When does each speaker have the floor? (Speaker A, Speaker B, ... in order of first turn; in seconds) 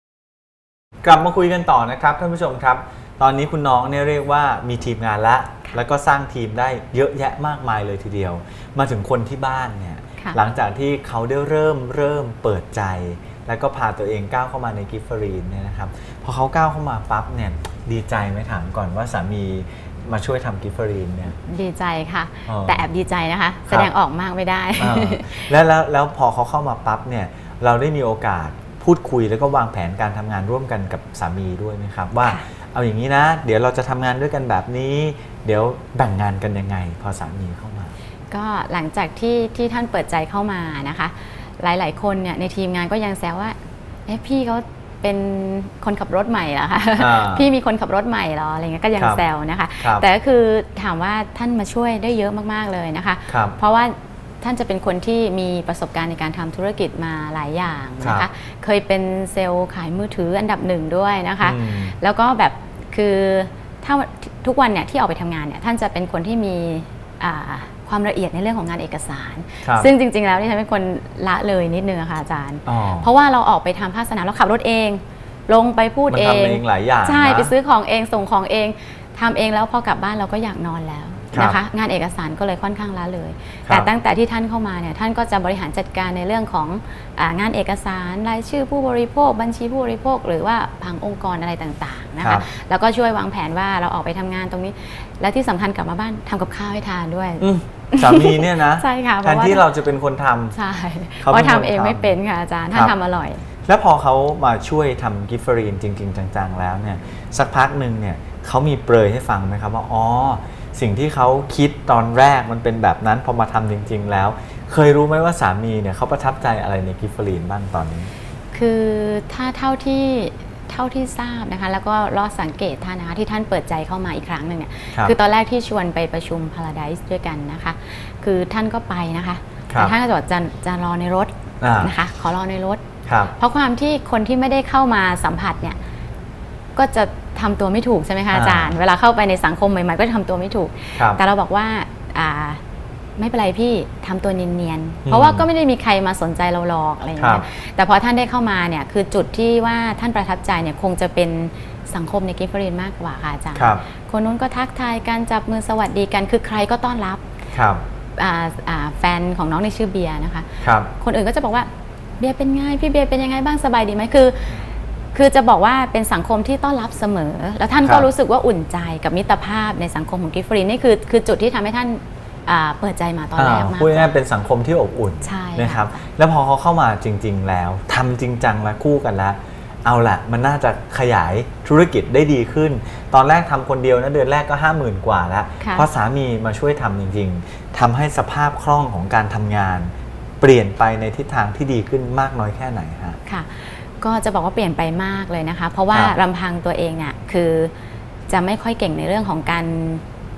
Speaker A: 1.0-21.4, 22.5-22.9, 24.8-37.9, 47.0-47.5, 49.0-49.2, 49.8-50.0, 53.3-53.6, 58.0-58.3, 61.4-62.0, 69.6-69.9, 72.7-73.1, 76.1-77.5, 81.3-81.6, 92.2-92.5, 97.4-100.6, 101.2-102.2, 103.7-118.1, 129.7-129.9, 131.6-131.9, 133.1-133.3, 138.3-138.8, 141.0-141.2, 145.1-145.5, 147.2-147.5, 153.5-153.8, 157.5-157.8, 160.6-160.9, 167.8-168.1, 173.4-193.2
Speaker B: 21.4-25.5, 38.3-99.7, 100.5-103.4, 118.5-132.8, 133.4-135.8, 136.8-142.6, 143.2-157.2, 158.2-161.7, 162.2-164.6, 165.1-174.1, 175.2-176.0, 185.6-185.9, 193.3-197.7, 198.3-200.0